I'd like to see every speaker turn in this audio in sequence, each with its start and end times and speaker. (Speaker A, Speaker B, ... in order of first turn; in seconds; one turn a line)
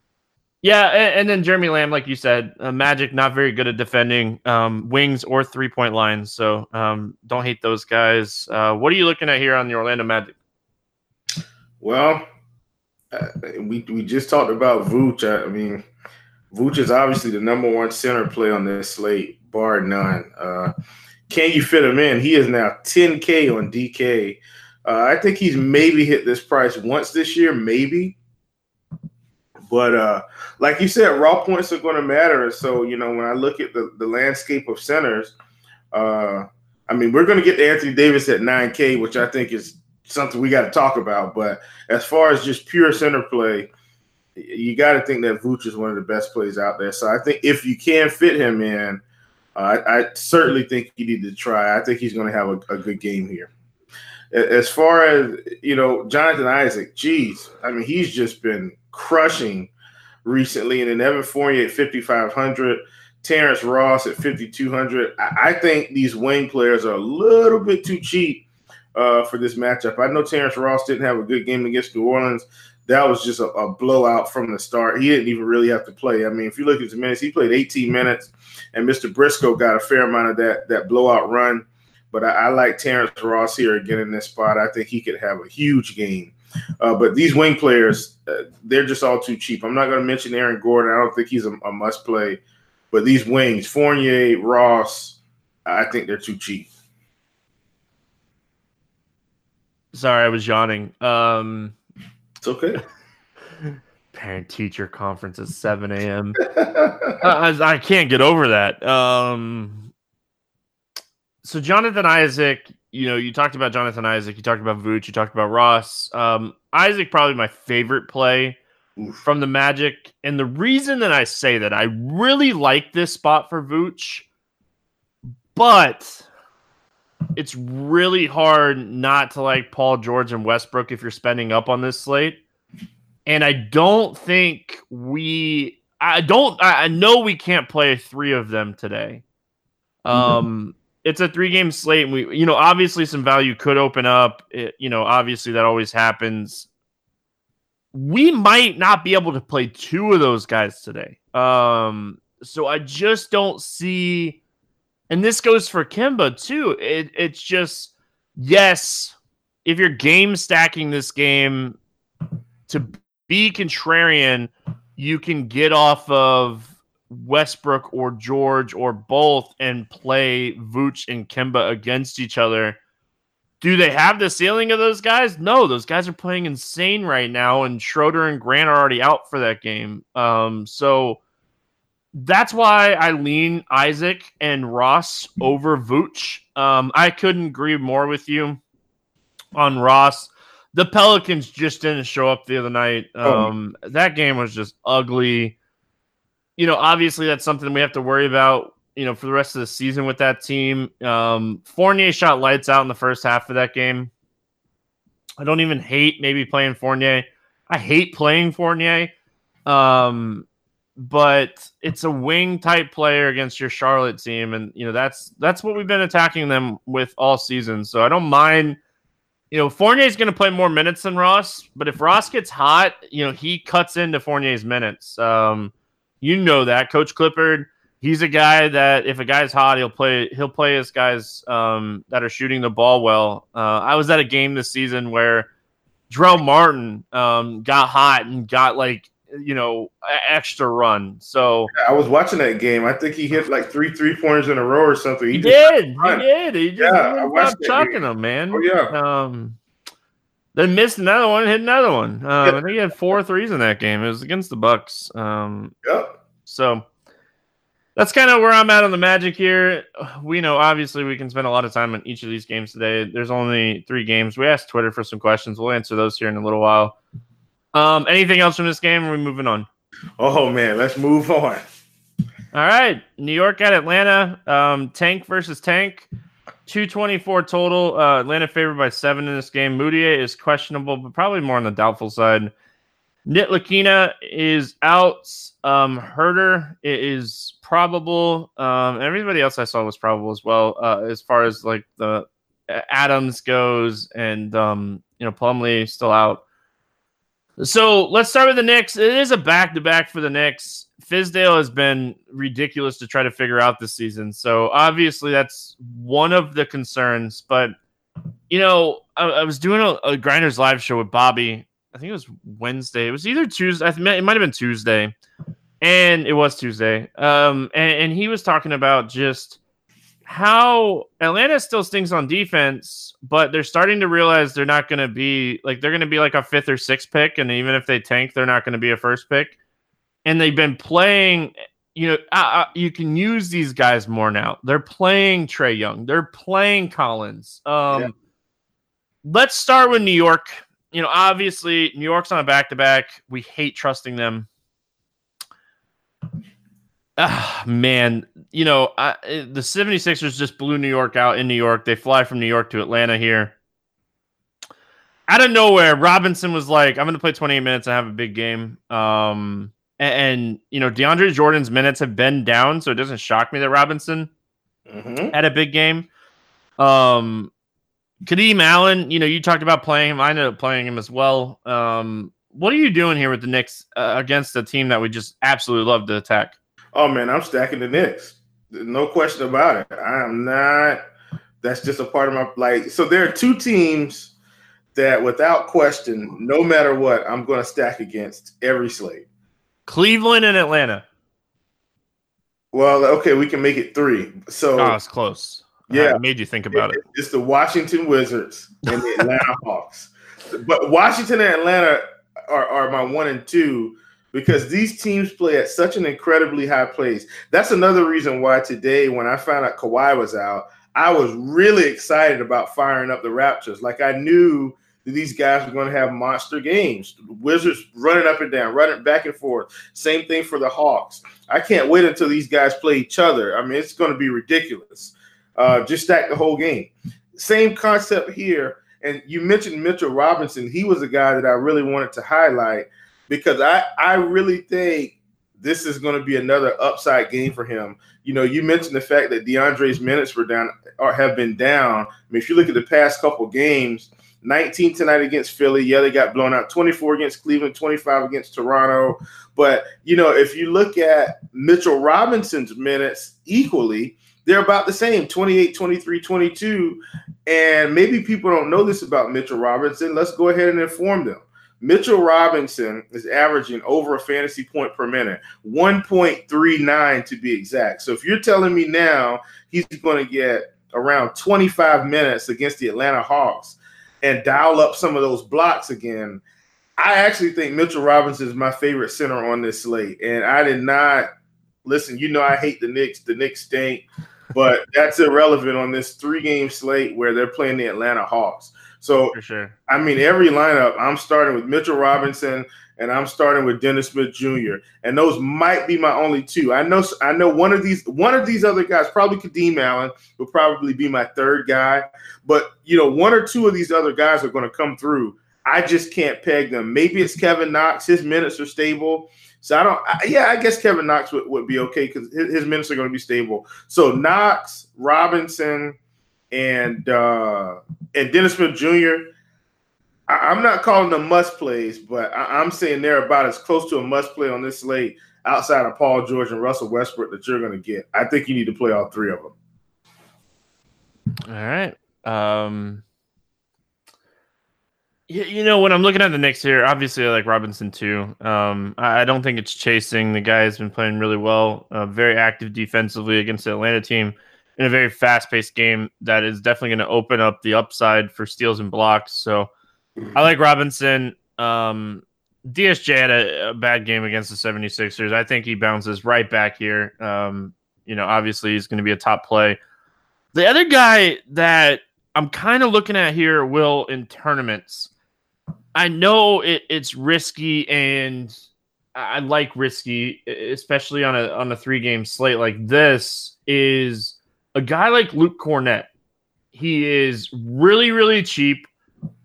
Speaker A: 0.6-10.3
Speaker B: 11.8-12.2
Speaker B: 13.1-15.8
Speaker B: 16.5-20.7
Speaker B: 21.3-28.1
Speaker B: 29.7-35.3
Speaker B: 35.9-43.7
Speaker B: 44.4-49.0
Speaker B: 49.5-53.5
Speaker B: 54.3-59.7
Speaker B: 60.2-92.4
Speaker B: 92.9-96.7
Speaker A: 99.9-101.7
Speaker B: 102.4-102.8
Speaker A: 104.1-106.4
Speaker B: 106.4-107.2
Speaker A: 107.2-109.9
Speaker A: 111.4-118.6
Speaker A: 119.2-124.2
Speaker A: 125.5-126.2
Speaker A: 127.3-132.4
Speaker A: 133.2-139.2
Speaker A: 140.0-146.7
Speaker B: 140.1-140.4
Speaker A: 147.9-154.4
Speaker A: 155.1-159.1
Speaker A: 159.6-161.8
Speaker A: 162.7-172.8
Speaker A: 173.6-181.2
Speaker A: 182.1-188.6
Speaker A: 189.5-195.6
Speaker B: 193.2-193.5
Speaker A: 196.6-204.1
Speaker A: 205.4-209.1
Speaker A: 209.7-210.4
Speaker A: 211.0-218.8
Speaker A: 219.5-235.5
Speaker A: 236.1-241.7
Speaker B: 241.7-246.2
Speaker A: 245.3-249.6
Speaker B: 246.8-248.0
Speaker B: 248.5-248.9
Speaker A: 250.5-255.7
Speaker B: 255.8-256.1
Speaker A: 256.4-256.9
Speaker A: 257.9-267.0
Speaker A: 267.7-269.7
Speaker B: 270.2-271.6
Speaker A: 272.5-276.1
Speaker A: 276.7-282.5
Speaker A: 283.2-296.4
Speaker A: 297.6-307.7
Speaker A: 308.5-315.1
Speaker A: 315.8-319.6
Speaker A: 320.2-329.6
Speaker A: 330.2-338.1
Speaker A: 339.2-344.5
Speaker A: 347.2-353.5
Speaker A: 355.3-364.3
Speaker B: 364.9-365.3
Speaker A: 365.3-366.1
Speaker A: 366.8-367.5
Speaker A: 368.2-376.5
Speaker B: 376.9-381.0
Speaker B: 381.6-384.3
Speaker B: 384.9-389.2
Speaker A: 389.9-391.0
Speaker B: 392.7-394.9
Speaker A: 394.8-397.0
Speaker B: 395.9-396.2
Speaker B: 396.7-476.4
Speaker B: 477.0-481.3
Speaker B: 481.8-489.3
Speaker A: 489.3-489.7
Speaker B: 489.9-516.0
Speaker B: 516.5-519.3
Speaker B: 520.3-529.5
Speaker A: 531.5-533.0
Speaker A: 535.3-549.7
Speaker A: 550.3-559.8
Speaker A: 560.5-565.1
Speaker A: 565.9-568.5
Speaker A: 569.1-576.1
Speaker A: 576.7-578.9